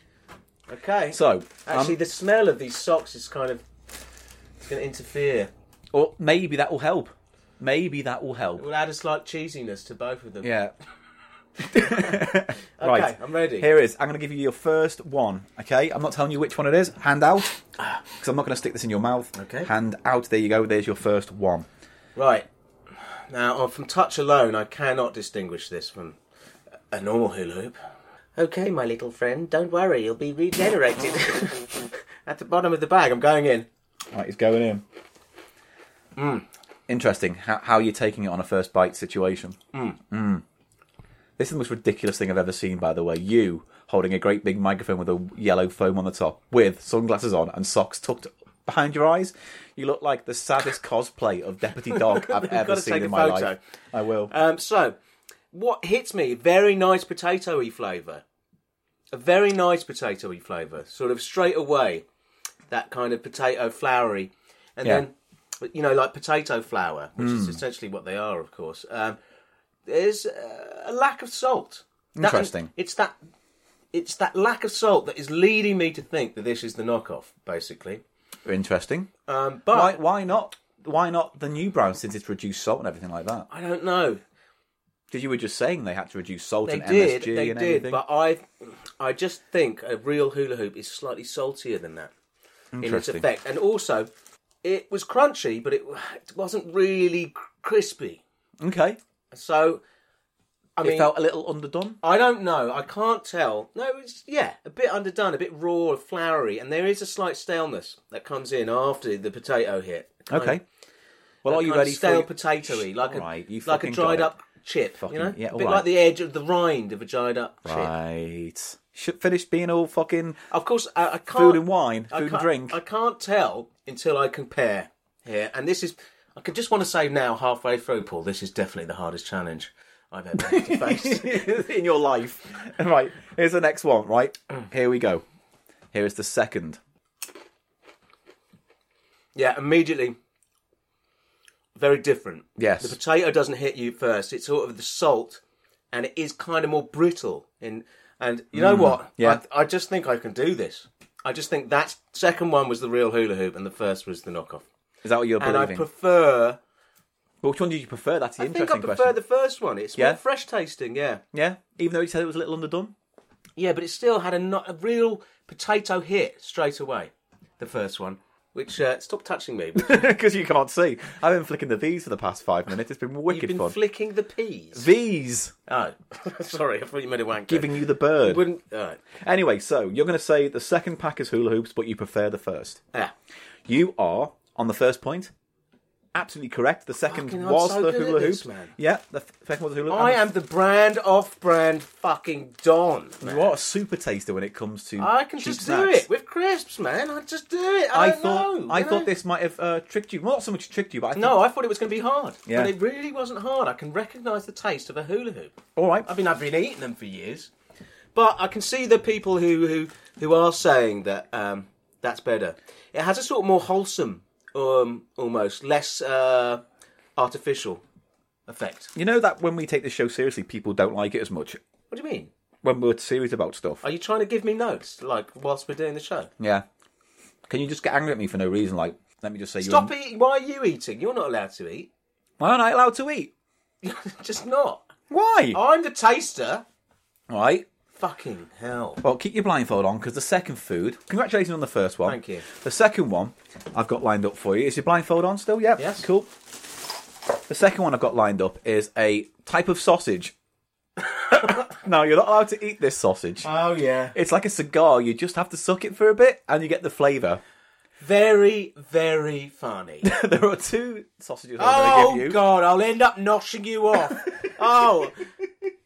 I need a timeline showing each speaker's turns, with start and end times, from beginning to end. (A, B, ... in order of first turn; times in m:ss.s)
0:00.7-0:03.6 A
0:01.1-0:02.0 B
0:04.6-0:05.5 A
0:05.9-0:08.6 B
0:08.6-0:10.5 A
0:10.4-0:10.7 B
0:11.6-0:17.6 B
0:11.7-0:13.7 A
0:18.2-0:21.7 B
0:19.3-0:19.7 A
0:22.1-0:22.5 A
0:23.1-0:26.2 A
0:26.9-0:27.8 A
0:28.4-0:33.7 A
0:34.1-0:34.8 B
0:36.2-0:36.4 A
0:36.9-0:39.6 B
0:39.7-0:40.0 A
0:40.1-0:40.4 B
0:41.4-0:54.3 B
0:51.9-0:53.6 A
0:54.3-0:55.0 A
0:55.5-0:58.2 A
0:59.1-1:02.0 A
1:02.7-1:09.2 A
1:07.2-1:07.6 B
1:09.8-1:13.1 A
1:12.2-1:12.7 B
1:13.9-1:18.0 A
1:18.4-1:19.1 B
1:19.2-1:20.0 A
1:19.7-1:23.5 B
1:23.5-1:24.2 A
1:25.1-1:28.0 B
1:26.6-1:32.1 A
1:32.7-1:33.2 B
1:32.8-1:34.1 A
1:34.6-1:38.2 A
1:38.6-1:39.0 B
1:39.3-1:39.8 A
1:40.8-1:41.1 A
1:40.8-1:42.0 B
1:42.0-1:50.6 A
1:50.3-1:50.6 B
1:51.4-1:54.3 B
1:51.4-1:57.9 A
1:55.0-1:55.9 B
1:57.6-2:00.4 B
2:00.5-2:11.6 A
2:01.3-2:02.8 B
2:10.4-2:15.2 B
2:15.9-2:16.8 B
2:19.3-2:20.2 A
2:21.7-2:34.6 A
2:22.6-2:23.0 B
2:28.5-2:29.4 B
2:35.0-2:35.8 B
2:35.4-2:36.6 A
2:37.4-2:39.2 B
2:38.4-2:41.2 A
2:41.3-2:42.9 B
2:43.6-2:50.1 A
2:49.8-2:53.8 B
2:53.3-2:54.9 A
2:54.7-2:55.5 B
2:55.7-2:59.0 A
2:57.5-2:58.4 B
2:59.2-3:02.8 B
3:03.7-3:05.3 B
3:06.1-3:10.2 B
3:07.1-3:08.7 A
3:09.9-3:13.5 A
3:13.2-3:16.0 B
3:15.0-3:19.1 A
3:17.9-3:21.4 B
3:21.2-3:27.5 A
3:22.4-3:22.7 B
3:25.8-3:26.1 B
3:28.1-3:36.6 A
3:37.2-3:37.8 A
3:38.5-3:38.9 A
3:38.9-3:41.6 B
3:41.9-3:42.3 A
3:42.6-3:43.8 B
3:43.8-3:46.3 A
3:46.4-3:46.6 B
3:47.5-3:49.9 B
3:49.6-3:51.9 A
3:52.4-3:53.3 B
3:53.8-3:54.9 A
3:55.1-3:55.6 B
3:55.5-3:56.6 A
3:57.3-3:57.7 B
3:57.9-3:59.0 A
3:59.0-4:06.3 B
4:02.0-4:02.4 A
4:05.8-4:06.0 A
4:07.5-4:10.3 B
4:11.3-4:11.6 A
4:11.6-4:13.5 B
4:13.4-4:14.2 A
4:14.1-4:17.4 B
4:18.0-4:20.1 A
4:20.0-4:22.4 B
4:21.6-4:25.2 A